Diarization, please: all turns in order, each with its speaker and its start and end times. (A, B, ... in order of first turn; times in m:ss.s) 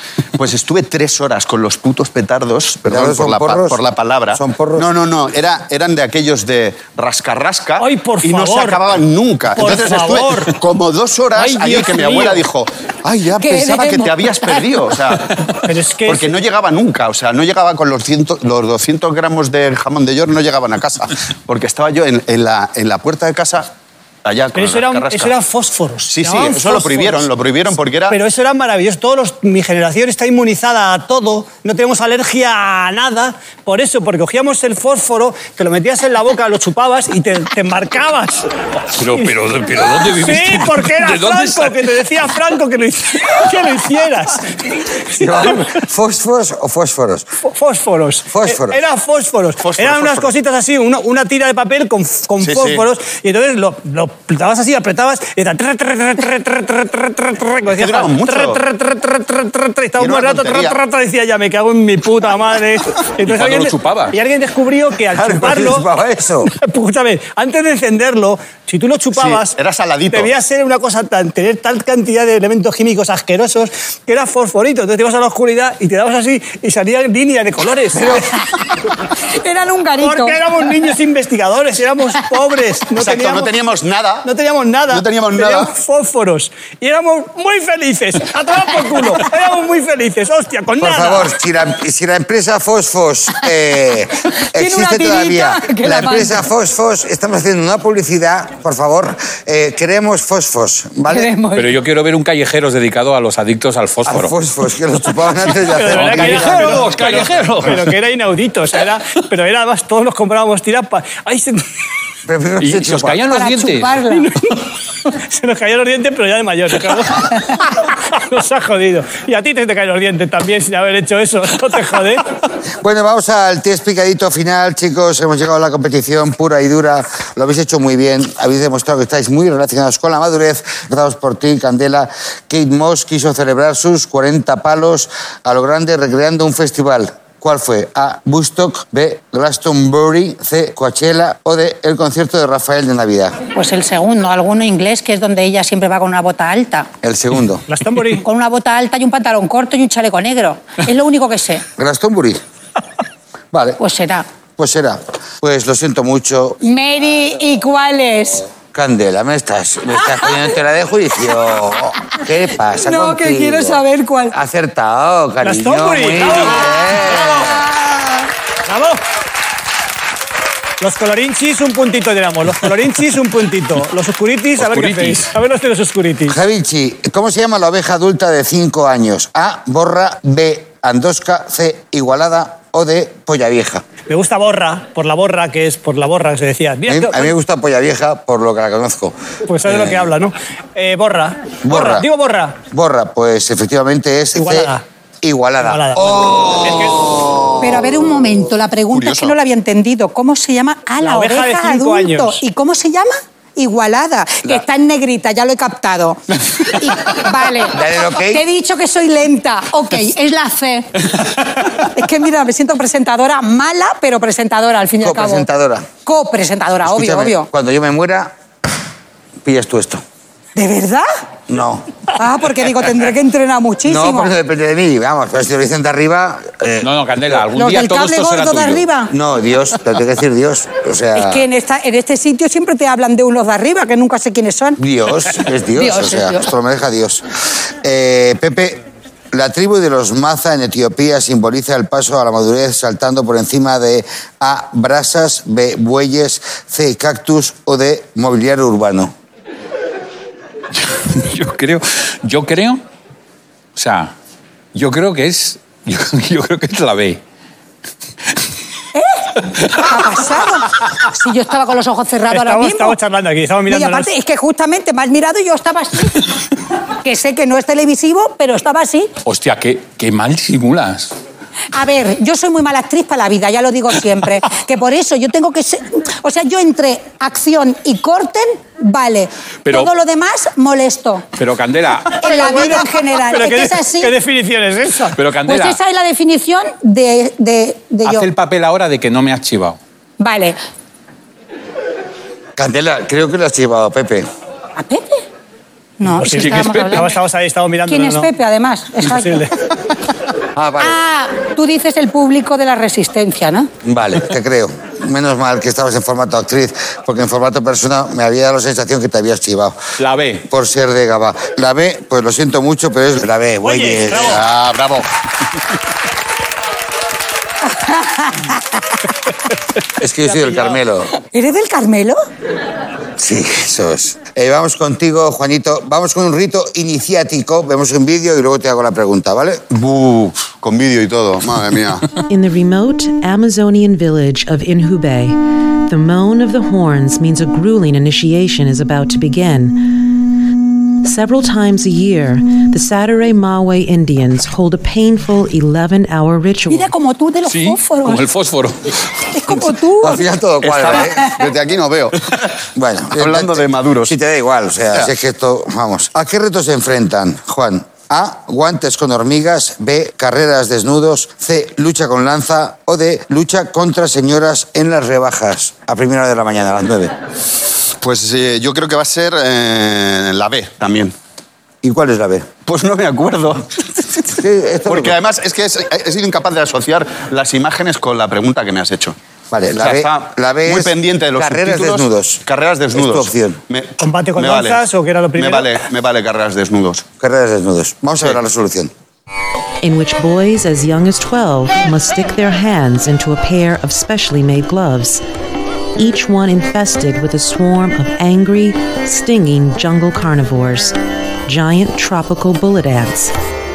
0:00.4-0:23.7 A
0:02.8-0:04.9 B
0:07.8-0:08.9 C
0:09.5-0:10.5 C
0:11.3-0:12.4 C
0:13.4-0:14.9 D
0:15.6-0:16.3 C
0:24.2-0:25.3 A
0:24.5-0:27.3 C
0:26.1-0:28.2 A
0:28.1-0:38.5 C
0:38.9-0:41.9 E
0:39.1-0:39.3 C
0:39.9-0:45.7 C
0:45.1-0:47.2 B
0:47.4-1:05.8 C
0:48.3-0:48.8 B
0:49.6-0:50.3 A
0:52.4-0:52.8 A
0:57.7-0:58.6 A
1:00.0-1:00.8 A
1:03.2-1:04.2 E
1:05.1-1:05.5 A
1:05.2-1:06.5 B
1:06.4-1:09.6 C
1:09.1-1:10.3 A
1:10.1-1:18.3 C
1:18.2-1:18.6 D
1:19.2-1:20.4 D
1:20.0-1:23.5 C
1:23.0-1:24.3 A
1:24.2-1:31.3 C
1:24.9-1:25.7 A
1:30.8-1:41.3 B
1:34.4-1:36.5 D
1:41.0-1:41.7 D
1:41.5-1:44.3 E
1:44.0-1:46.8 B
1:45.7-1:51.6 C
1:45.9-1:47.9 E
1:52.3-1:53.2 B
1:52.6-1:54.0 E
1:53.3-1:54.3 D
1:54.1-2:02.2 C
2:02.8-2:23.4 B
2:23.5-2:26.9 D
2:27.0-2:27.6 B
2:27.7-2:28.2 C
2:28.2-2:31.6 D
2:31.8-2:32.4 B
2:33.5-2:33.8 B
2:33.8-2:34.2 D
2:34.6-2:36.6 B
2:36.6-2:38.5 D
2:38.6-2:47.5 B
2:40.0-2:40.4 D
2:42.7-2:44.4 D
2:45.4-2:47.4 C
2:46.3-2:48.1 D
2:48.6-2:49.0 C
2:50.8-2:56.4 C
2:54.6-2:55.3 E
2:56.3-3:03.8 B
3:04.1-3:07.3 C
3:06.8-3:10.0 B
3:09.5-3:12.6 C
3:11.6-3:12.1 B
3:12.7-3:17.5 B
3:14.3-3:14.8 C
3:15.6-3:17.1 C
3:17.6-3:31.0 D
3:18.9-3:19.4 A
3:21.0-3:22.4 C
3:27.6-3:28.4 B
3:31.8-3:35.5 D
3:35.0-3:35.9 B
3:36.0-3:37.5 D
3:36.8-3:38.3 B
3:39.4-3:40.0 B
3:40.6-3:41.1 D
3:41.5-3:41.8 B
3:42.1-3:44.3 D
3:43.8-3:47.4 B
3:46.8-3:48.8 E
3:47.5-3:49.1 D
3:49.1-3:51.4 B
3:51.1-3:54.8 D
3:54.8-3:57.2 B
3:55.7-3:56.5 D
3:57.8-3:58.8 B
3:59.3-4:09.1 B
4:10.7-4:12.8 E
4:13.7-4:14.1 E
4:14.7-4:17.2 E
4:18.9-4:23.0 D
4:19.6-4:20.2 E
4:22.3-4:24.1 C
4:23.7-4:26.3 D
4:27.0-4:29.1 D
4:29.2-4:31.1 E
4:31.7-4:41.2 D
4:39.6-4:39.9 E
4:41.4-4:42.2 E
4:42.2-4:45.2 C
4:42.2-4:44.1 D
4:45.1-4:45.8 E
4:45.4-4:48.3 D
4:48.0-4:49.8 E
4:50.2-4:50.6 D
4:52.6-4:54.2 B
4:54.8-4:55.2 D
4:56.0-4:57.2 D
4:56.2-4:58.3 C
4:56.2-4:57.0 E
4:57.9-4:59.5 D
4:59.0-4:59.5 C
5:00.5-5:01.0 B
5:00.8-5:03.7 D
5:03.8-5:09.8 B
5:10.0-5:10.4 E
5:10.5-5:14.4 B
5:13.6-5:14.4 C
5:14.2-5:15.1 E
5:17.6-5:19.0 D
5:20.0-5:21.1 B
5:20.3-5:20.8 C
5:21.2-5:22.2 D
5:23.2-5:29.6 B
5:29.7-5:32.2 A
5:32.3-5:39.9 F
5:41.0-5:46.9 F
5:46.7-5:48.2 D
5:47.5-5:49.1 E
5:49.2-5:50.2 D
5:50.0-5:51.3 B
5:50.6-5:52.6 A
5:52.7-6:07.1 B
5:53.1-5:54.2 A
6:08.0-6:11.1 A
6:11.8-6:12.5 B
6:12.6-6:19.2 A
6:14.3-6:15.2 B
6:19.5-6:22.4 B
6:19.7-6:27.0 A
6:22.9-6:23.6 B
6:24.0-6:25.7 C
6:27.2-6:28.9 B
6:29.8-6:35.2 F
6:36.0-6:41.0 F
6:41.5-6:43.3 F